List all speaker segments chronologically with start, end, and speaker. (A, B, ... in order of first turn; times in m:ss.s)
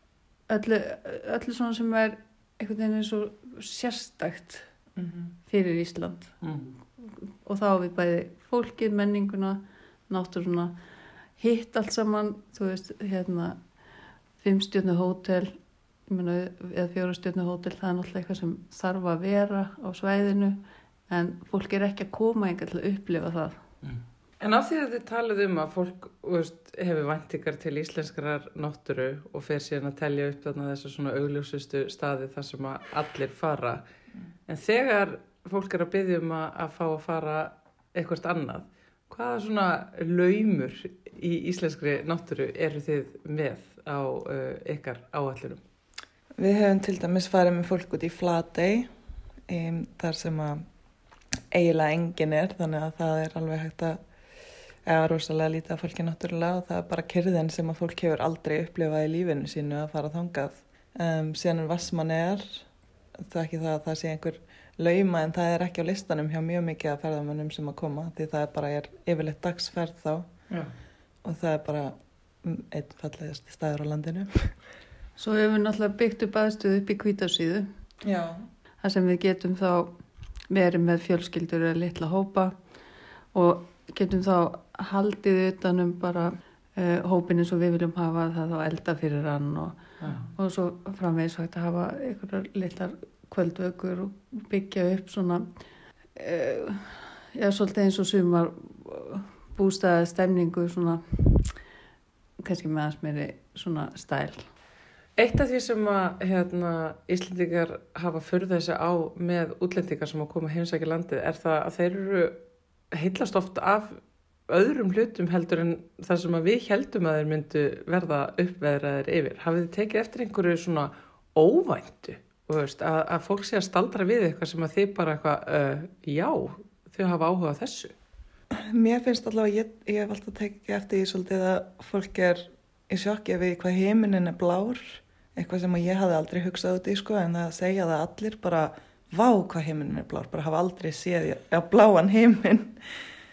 0:00.5-0:04.7 A
0:05.5-0:06.4 A
0:07.4-0:10.8 A
0:11.4-0:13.6 A
0:14.4-0:23.6 A
0:23.8-0:33.9 B
0:34.5-0:45.6 B
0:46.4-0:48.9 C
0:49.5-0:50.7 C
0:51.5-0:54.0 C
0:54.8-1:02.6 C
1:03.2-1:10.3 C
1:11.2-1:14.5 C
1:15.2-1:17.7 A
1:18.0-1:18.4 C
1:18.8-1:20.0 A
1:20.5-1:22.6 A
1:23.3-1:35.5 A
1:36.2-1:41.5 A
1:42.4-1:44.5 A
1:45.2-2:08.0 B
2:08.7-2:22.8 C